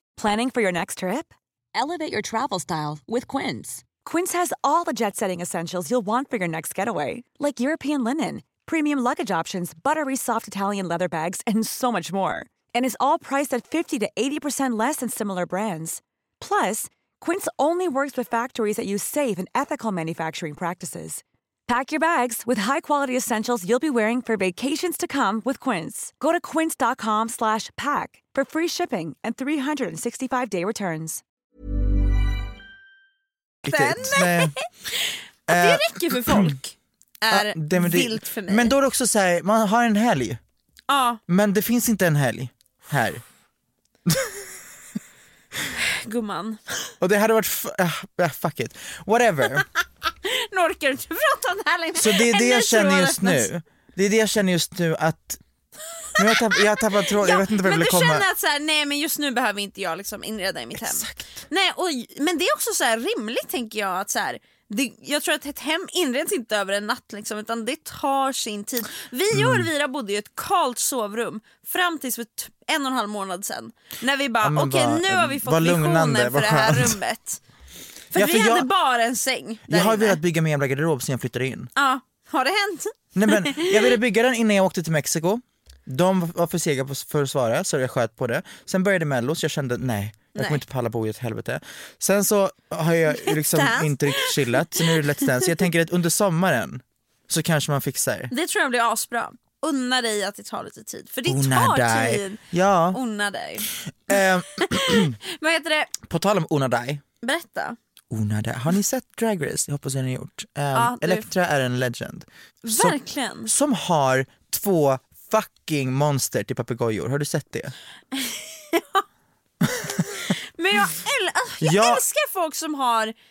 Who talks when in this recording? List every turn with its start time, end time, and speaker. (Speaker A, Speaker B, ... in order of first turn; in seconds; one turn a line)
Speaker A: 0.2-31.2
Speaker B: 33.6-34.5
Speaker C: 33.7-38.8
Speaker B: 35.5-36.6
Speaker B: 37.3-40.4
Speaker C: 40.9-41.2
Speaker B: 41.3-43.2
Speaker B: 44.1-44.4
Speaker C: 45.8-46.9
Speaker B: 47.0-49.6
Speaker C: 50.2-53.5
Speaker B: 52.0-55.4
Speaker B: 56.2-58.3
Speaker C: 57.1-77.4
Speaker B: 60.8-61.3
Speaker B: 69.3-69.7
Speaker B: 74.4-77.0
Speaker C: 78.1-80.2
Speaker B: 78.1-78.7
Speaker B: 79.7-81.7
Speaker C: 81.8-83.9
Speaker B: 83.2-98.3
Speaker C: 90.3-90.6
Speaker C: 93.1-95.5
Speaker C: 98.3-102.4
Speaker B: 101.3-103.0
Speaker C: 102.9-103.7
Speaker B: 104.1-105.2
Speaker C: 104.6-105.9
Speaker B: 106.0-107.0
Speaker C: 107.2-107.8
Speaker B: 108.1-117.7
Speaker C: 110.7-111.3
Speaker C: 112.7-113.5
Speaker C: 118.1-119.0
Speaker B: 119.7-119.9
Speaker C: 120.2-123.1
Speaker B: 121.6-122.0